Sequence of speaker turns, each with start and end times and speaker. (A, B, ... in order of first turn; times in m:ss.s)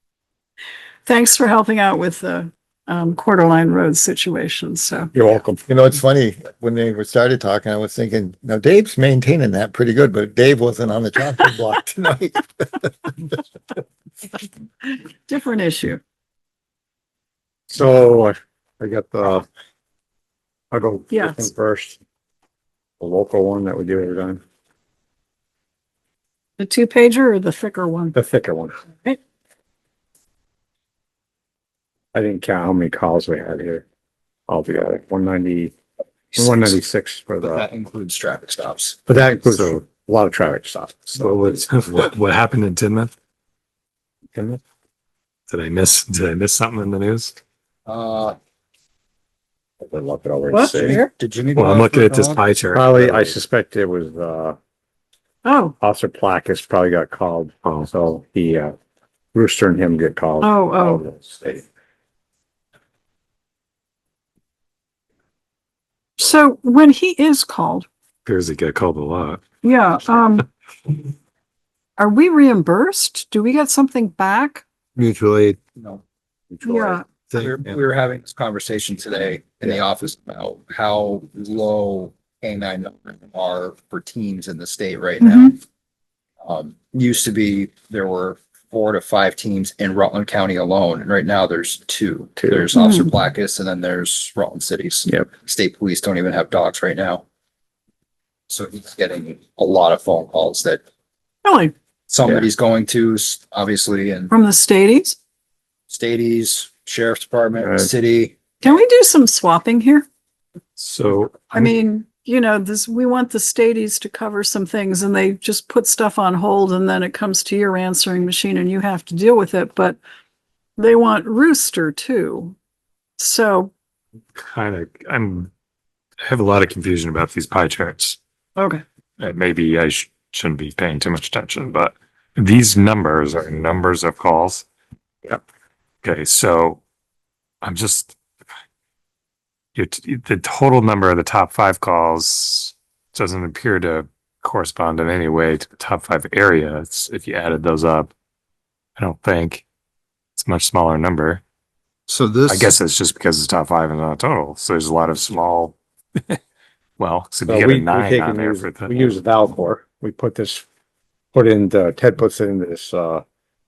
0:01.1-0:05.1 A
0:05.1-0:05.6 B
0:05.6-0:13.1 C
0:15.3-0:16.0 A
0:17.7-0:19.4 B
0:20.7-0:22.0 B
0:21.1-0:21.5 A
0:23.0-0:24.4 B
0:26.6-0:28.2 A
0:28.1-0:28.8 B
0:32.1-0:33.8 B
0:34.5-0:35.7 B
0:36.3-0:37.7 B
0:36.3-0:36.8 D
0:37.4-0:39.0 D
0:39.0-0:41.4 B
0:39.4-0:39.8 E
0:41.2-0:43.1 E
0:44.3-0:44.6 B
0:45.5-0:47.4 E
0:47.9-0:48.4 D
0:49.8-0:51.0 B
0:50.5-0:51.1 A
0:50.8-0:52.4 D
0:51.6-0:53.4 E
0:52.7-0:54.6 B
0:55.4-0:55.8 A
0:55.8-0:58.8 B
0:59.3-1:01.7 B
1:00.4-1:01.0 A
1:06.2-1:07.9 A
1:08.2-1:09.4 E
1:09.6-1:10.5 A
1:12.0-1:14.6 A
1:15.0-1:16.0 D
1:16.5-1:17.8 B
1:16.6-1:17.0 A
1:16.7-1:25.6 D
1:25.2-1:25.6 A
1:26.4-1:37.2 D
1:32.4-1:32.7 B
1:32.7-1:33.1 A
1:38.5-1:40.8 D
1:41.4-1:41.7 A
1:42.1-1:44.3 D
1:44.3-1:45.2 A
1:45.9-1:48.4 D
1:47.6-1:47.9 B
1:48.6-1:50.0 A
1:50.8-1:51.7 E
1:51.5-2:00.0 A
2:00.8-2:02.6 A
2:03.2-2:03.7 A
2:04.4-2:05.5 E
2:06.2-2:08.2 E
2:08.6-2:08.8 A
2:09.2-2:14.7 E
2:16.0-2:16.8 E
2:17.6-2:18.2 E
2:19.8-2:28.1 E
2:29.0-2:29.6 E
2:30.4-2:31.4 E
2:32.1-2:32.8 D
2:32.5-2:36.4 E
2:37.0-2:39.1 E
2:37.5-2:40.6 B
2:41.3-2:43.2 B